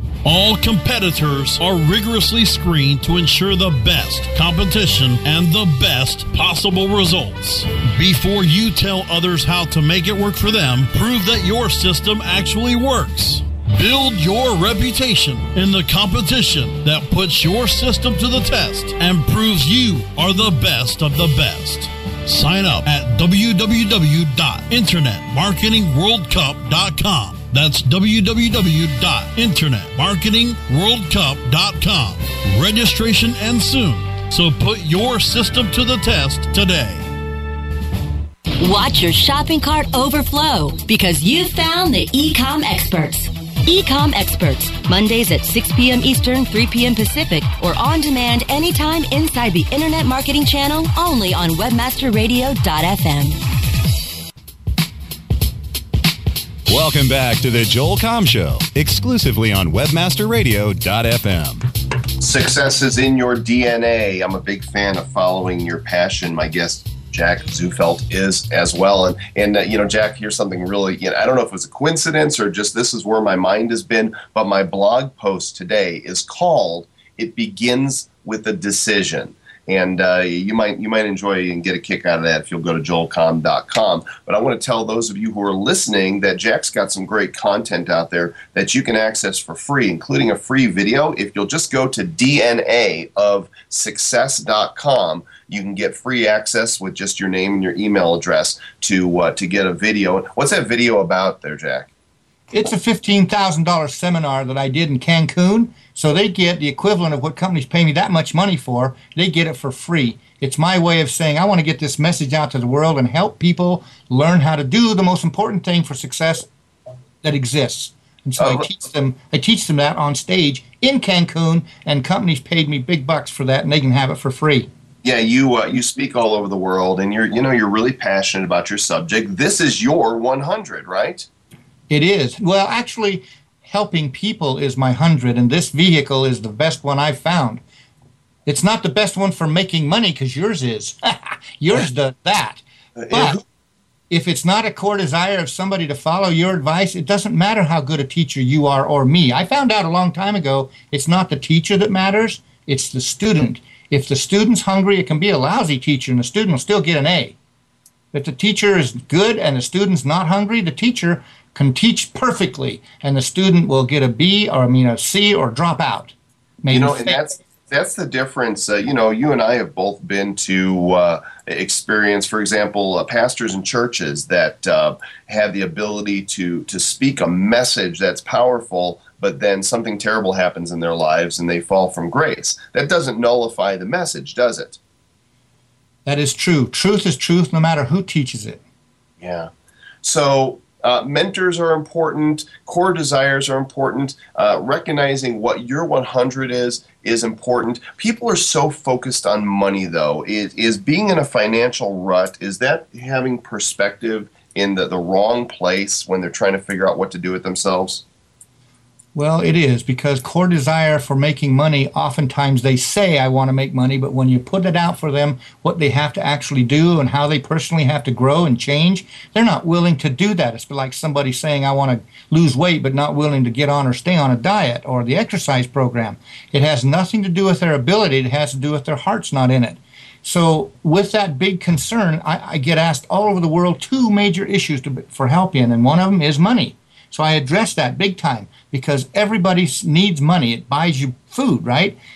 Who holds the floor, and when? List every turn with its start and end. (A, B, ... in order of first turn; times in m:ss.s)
0:00.2-0:37.1 A
0:38.6-0:53.4 B
0:56.7-1:01.6 C
1:02.2-1:41.9 D
1:42.5-1:56.5 E
1:57.2-2:04.7 E
1:58.4-1:58.7 D
2:05.0-2:11.3 D
2:11.9-2:17.6 E
2:18.4-2:23.4 E
2:23.0-2:23.4 D
2:24.1-2:37.4 E
2:38.1-2:47.2 E
2:46.7-3:04.8 D
3:06.1-3:08.6 E
3:09.2-3:09.5 D
3:10.0-3:28.0 D
3:29.1-4:02.0 E